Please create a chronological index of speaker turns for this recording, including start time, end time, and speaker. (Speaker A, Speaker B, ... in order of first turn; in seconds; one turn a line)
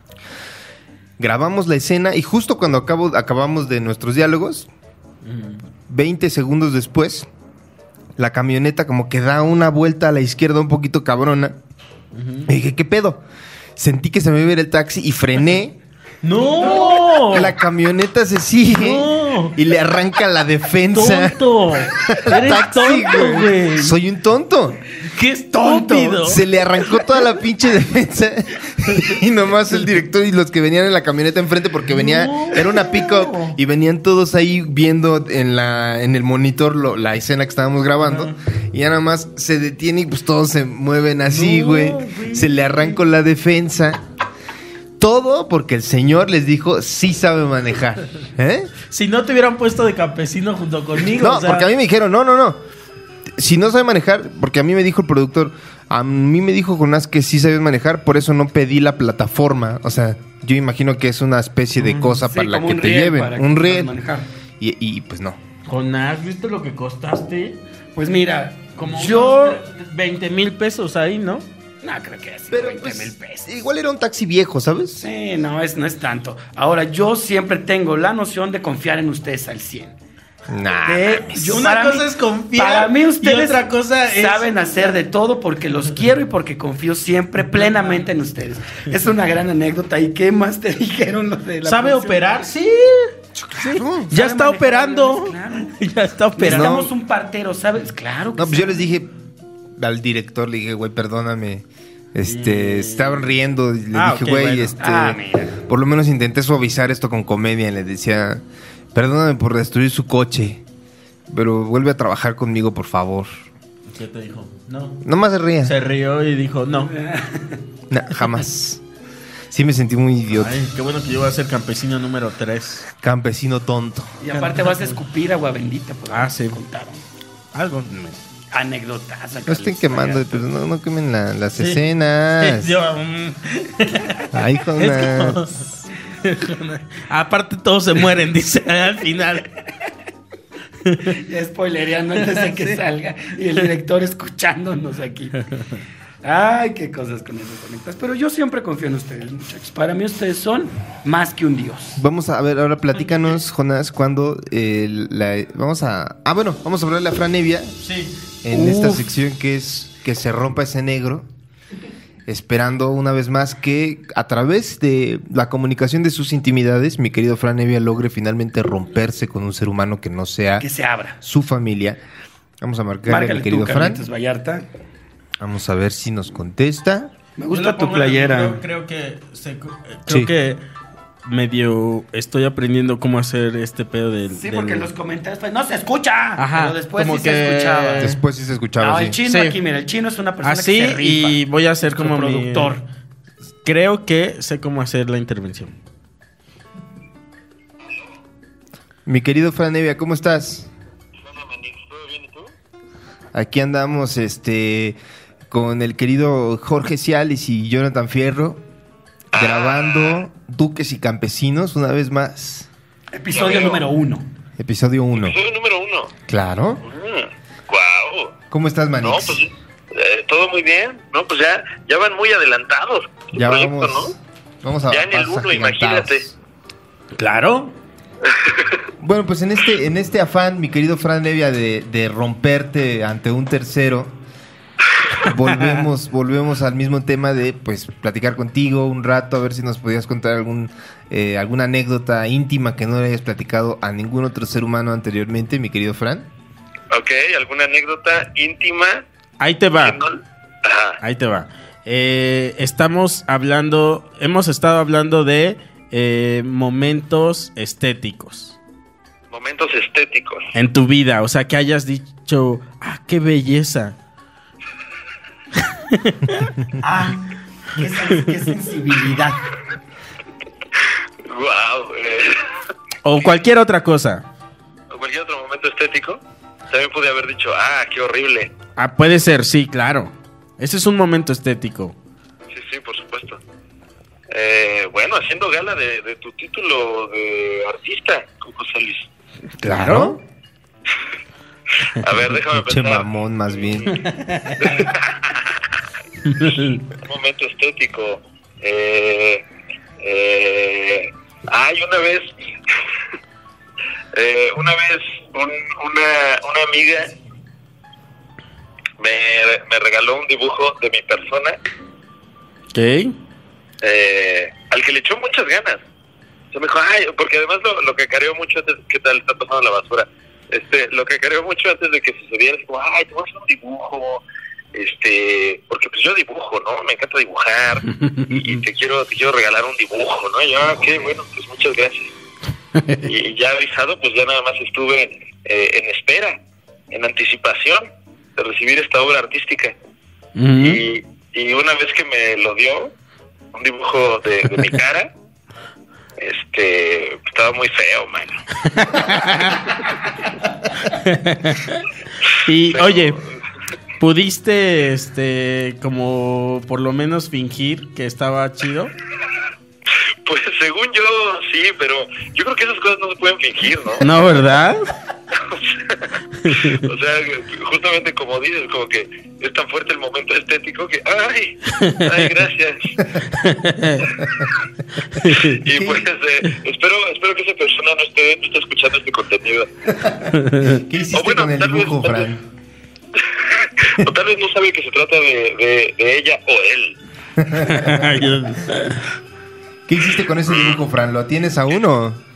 Speaker A: 1.2-4.7
Speaker B: 5.2-5.6
Speaker A: 5.9-7.3
Speaker A: 8.2-11.6
Speaker B: 12.1-12.5
Speaker A: 12.5-13.2
Speaker A: 13.8-15.8
Speaker B: 16.2-17.5
Speaker A: 17.3-24.8
Speaker B: 18.7-19.6
Speaker B: 20.9-23.9
Speaker B: 25.0-26.4
Speaker C: 25.5-26.3
Speaker A: 26.2-44.0
Speaker B: 31.9-33.6
Speaker B: 38.0-38.3
Speaker B: 41.3-43.0
Speaker A: 45.0-48.7
Speaker B: 48.9-51.7
Speaker A: 51.0-52.6
Speaker A: 53.3-63.9
Speaker B: 61.8-62.2
Speaker C: 62.2-64.3
Speaker A: 64.6-65.4
Speaker B: 65.7-67.6
Speaker C: 67.9-69.6
Speaker B: 68.8-71.5
Speaker C: 71.8-73.5
Speaker A: 72.5-75.1
Speaker C: 75.0-79.9
Speaker A: 80.5-81.7
Speaker C: 80.8-92.5
Speaker B: 81.5-84.7
Speaker B: 87.5-88.0
Speaker B: 91.6-96.7
Speaker A: 93.4-94.1
Speaker C: 94.1-95.8
Speaker C: 96.4-98.9
Speaker A: 96.4-96.9
Speaker A: 98.4-99.1
Speaker A: 99.8-108.4
Speaker B: 102.3-103.3
Speaker B: 103.9-104.8
Speaker C: 104.8-105.5
Speaker A: 108.9-110.6
Speaker A: 111.3-113.3
Speaker B: 113.9-115.0
Speaker A: 115.0-115.7
Speaker B: 115.6-117.0
Speaker C: 117.0-117.6
Speaker A: 117.9-118.8
Speaker A: 119.5-120.6
Speaker B: 120.3-122.9
Speaker A: 123.0-124.1
Speaker C: 124.2-127.0
Speaker B: 124.3-125.0
Speaker B: 126.1-126.6
Speaker B: 127.5-128.2
Speaker C: 128.5-130.4
Speaker A: 129.4-132.7
Speaker B: 131.6-131.8
Speaker B: 132.4-139.5
Speaker A: 134.3-135.4
Speaker B: 140.8-141.2
Speaker C: 141.1-145.4
Speaker B: 142.2-142.8
Speaker C: 146.2-152.0
Speaker A: 152.0-157.8
Speaker B: 157.8-158.2
Speaker A: 158.4-161.2
Speaker C: 158.5-159.0
Speaker A: 162.3-170.7
Speaker C: 170.6-171.2
Speaker A: 171.2-172.0
Speaker A: 172.6-174.0
Speaker C: 173.1-174.7
Speaker A: 175.4-177.1
Speaker C: 177.4-178.6
Speaker B: 177.5-180.6
Speaker B: 181.2-184.9
Speaker C: 184.3-188.1
Speaker B: 186.4-188.2
Speaker A: 188.0-189.2
Speaker C: 188.8-192.8
Speaker B: 189.3-189.6
Speaker B: 190.4-192.7
Speaker B: 193.6-195.7
Speaker A: 199.1-200.7
Speaker D: 201.2-202.5
Speaker A: 203.3-205.0
Speaker A: 205.5-208.6
Speaker D: 209.3-210.2
Speaker A: 209.3-212.7
Speaker C: 213.1-214.3
Speaker D: 213.3-213.8
Speaker A: 214.6-215.3
Speaker D: 215.1-216.2
Speaker A: 216.3-216.8
Speaker D: 216.8-218.4
Speaker A: 218.5-219.4
Speaker D: 219.0-224.1
Speaker A: 223.3-226.3
Speaker D: 224.9-226.2
Speaker B: 227.2-227.7
Speaker D: 228.2-228.8
Speaker A: 229.0-234.1
Speaker A: 235.2-246.3
Speaker D: 246.9-249.0
Speaker B: 249.4-250.0
Speaker D: 249.8-251.0
Speaker B: 251.0-258.6
Speaker D: 259.3-260.5
Speaker B: 260.5-264.0
Speaker B: 265.6-266.5
Speaker C: 266.8-269.5
Speaker B: 267.8-268.3
Speaker D: 270.8-272.5
Speaker B: 273.0-274.2
Speaker D: 274.9-278.5
Speaker B: 278.8-281.9
Speaker D: 282.5-283.4
Speaker D: 284.3-289.1
Speaker B: 289.6-290.1
Speaker A: 289.6-290.2
Speaker D: 291.9-293.1
Speaker A: 292.5-293.9
Speaker D: 293.6-293.9
Speaker B: 293.9-294.9
Speaker D: 294.6-295.6
Speaker B: 296.2-296.8
Speaker D: 296.9-299.4
Speaker D: 300.0-302.3
Speaker D: 304.1-307.1
Speaker D: 309.0-311.6
Speaker B: 312.7-313.1
Speaker D: 313.8-315.8
Speaker D: 316.5-332.1
Speaker B: 327.9-328.6
Speaker B: 332.8-333.0
Speaker D: 333.0-336.4
Speaker D: 336.9-339.8
Speaker B: 340.4-340.8
Speaker D: 340.6-342.9
Speaker D: 343.5-345.1
Speaker D: 346.2-348.4
Speaker B: 348.6-349.8
Speaker B: 350.8-353.2
Speaker D: 352.7-353.3
Speaker B: 354.0-358.9
Speaker D: 360.2-364.1
Speaker B: 364.0-364.9
Speaker D: 365.3-372.9
Speaker B: 366.4-366.9
Speaker B: 371.7-372.3
Speaker B: 373.2-374.2
Speaker B: 375.1-375.6
Speaker D: 375.4-379.7
Speaker A: 375.7-376.1
Speaker A: 380.0-382.4
Speaker B: 380.3-380.8
Speaker D: 381.1-382.3
Speaker D: 383.2-387.0
Speaker A: 387.4-387.8
Speaker B: 387.6-389.0
Speaker A: 389.9-392.2
Speaker D: 390.5-390.8